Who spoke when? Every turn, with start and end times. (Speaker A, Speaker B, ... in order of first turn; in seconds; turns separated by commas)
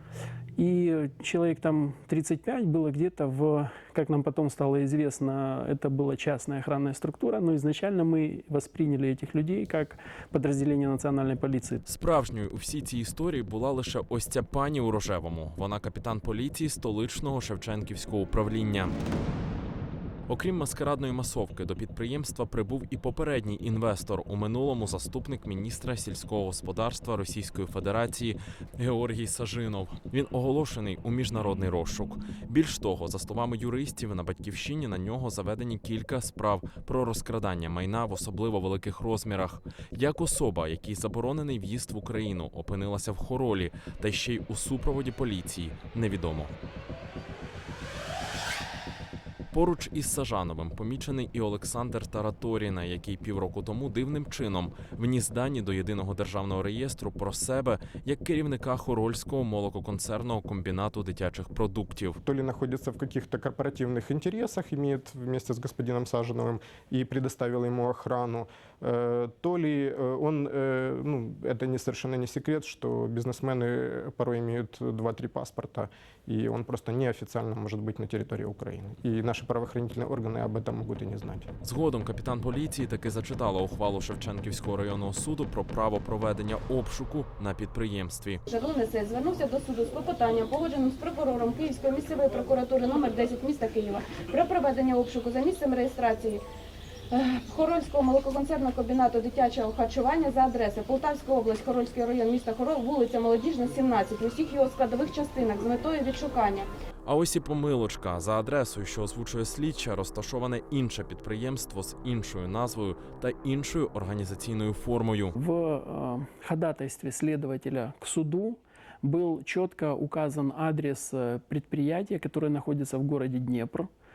Speaker A: 0.6-11.8, Speaker B: 11.8-18.9, Speaker B: 20.3-46.5, Speaker B: 49.5-62.2, Speaker C: 62.2-81.5, Speaker B: 81.6-88.4, Speaker D: 88.5-96.4, Speaker D: 97.1-106.7, Speaker B: 107.0-115.3, Speaker A: 115.3-123.9